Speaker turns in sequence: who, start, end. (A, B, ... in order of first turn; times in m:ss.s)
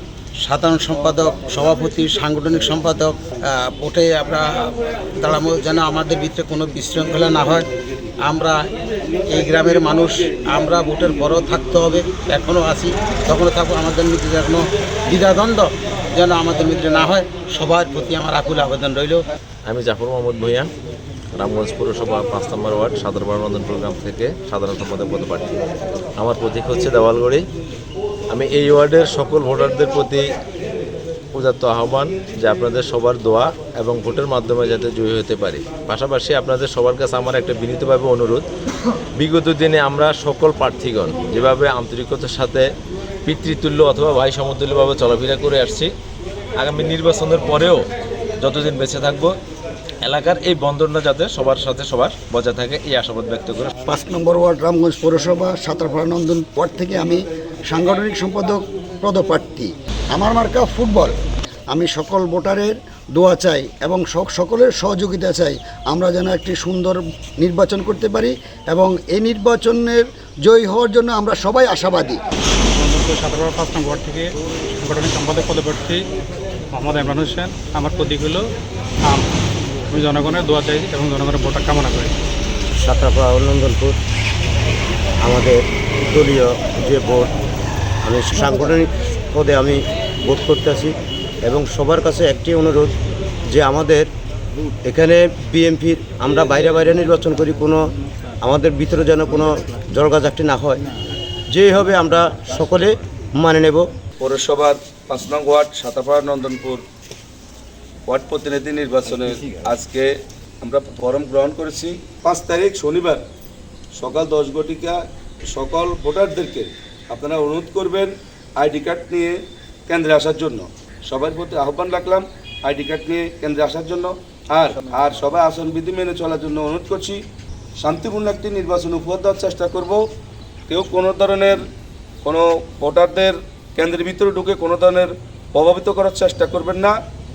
0:00.4-0:04.7 A
0:05.2-0:07.7 A
0:08.2-0:08.6 A
0:09.3-0:19.2 A
0:19.6-0:20.7 B
0:21.3-0:25.6 B
0:26.2-0:27.4 B
0:28.3-0:30.2 B
0:31.3-0:38.4 B
0:39.2-0:42.6 B
0:43.2-0:45.9 B
0:46.6-0:47.9 B
0:48.4-0:49.3 B
0:50.0-0:53.7 B
0:53.8-1:01.1 C
1:01.7-1:12.2 C
1:12.8-1:16.0 D
1:16.7-1:18.4 D
1:19.9-1:22.1 D
1:22.8-1:24.0 E
1:25.2-1:27.3 E
1:28.0-1:30.9 E
1:31.4-1:32.9 E
1:33.5-1:34.1 E
1:34.8-1:37.8 E
1:38.4-1:40.8 E
1:41.5-1:43.8 E
1:44.2-1:46.8 F
1:48.1-1:50.1 F
1:50.6-1:53.2 F
1:53.9-1:55.0 F
1:55.5-1:59.3 F
1:59.9-2:07.2 F
2:07.8-2:10.0 F
2:10.7-2:11.6 F
2:12.2-2:16.9 F